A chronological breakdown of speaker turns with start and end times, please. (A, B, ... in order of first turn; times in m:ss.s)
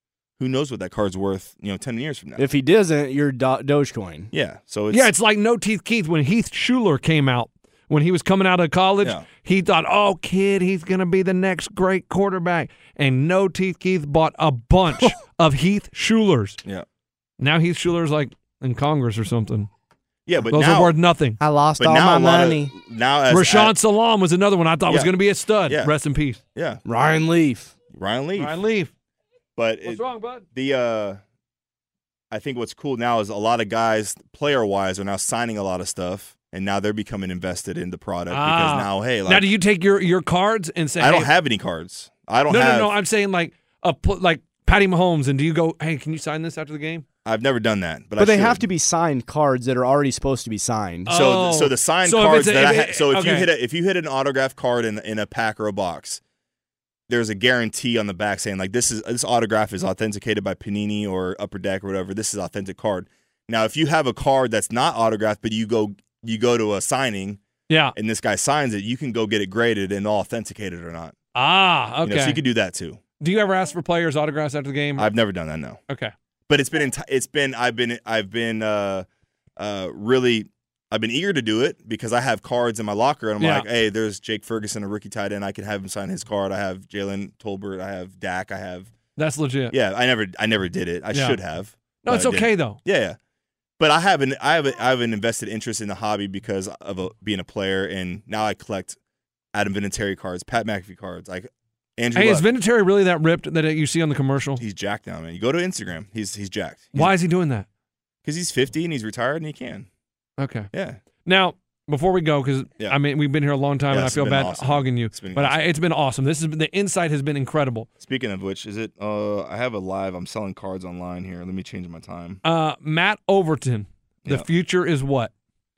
0:00.4-0:02.5 A
0:02.4-0:04.3 B
0:04.3-0:05.1 A
0:04.9-0:16.6 C
0:17.4-0:19.7 C
0:20.3-0:20.9 A
0:20.5-0:21.4 C
0:21.4-0:22.7 B
0:21.8-0:23.8 A
0:23.3-0:26.4 C
0:24.9-0:25.9 A
0:26.6-0:26.8 A
0:26.9-0:27.8 B
0:27.9-0:28.6 A
0:28.4-0:28.9 C
0:29.6-0:31.2 A
0:29.8-0:30.4 C
0:32.3-0:39.5 A
0:38.3-0:41.3 C
0:41.0-0:42.9 A
0:42.5-0:47.0 C
0:47.2-0:48.6 A
0:48.2-0:51.1 B
0:51.1-0:53.5 C
0:51.1-0:56.2 A
0:57.1-1:07.4 A
1:07.7-1:08.0 C
1:08.0-1:11.2 A
1:11.4-1:12.4 C
1:12.0-1:13.0 A
1:13.2-1:15.1 C
1:15.0-1:15.8 A
1:16.5-1:19.1 A
1:19.6-1:28.9 A
1:23.4-1:23.7 C
1:29.2-1:29.7 C
1:29.7-1:33.2 A
1:31.1-1:31.4 C
1:32.0-1:32.8 C
1:33.8-1:39.0 A
1:39.5-1:42.5 A
1:42.2-1:44.6 C
1:44.6-1:47.2 A
1:47.0-1:47.7 C
1:48.2-1:49.9 A
1:50.4-1:50.7 C
1:50.7-1:51.0 A
1:51.2-1:57.9 C
1:53.9-1:55.6 A
1:58.0-2:02.4 A
2:02.4-2:05.3 C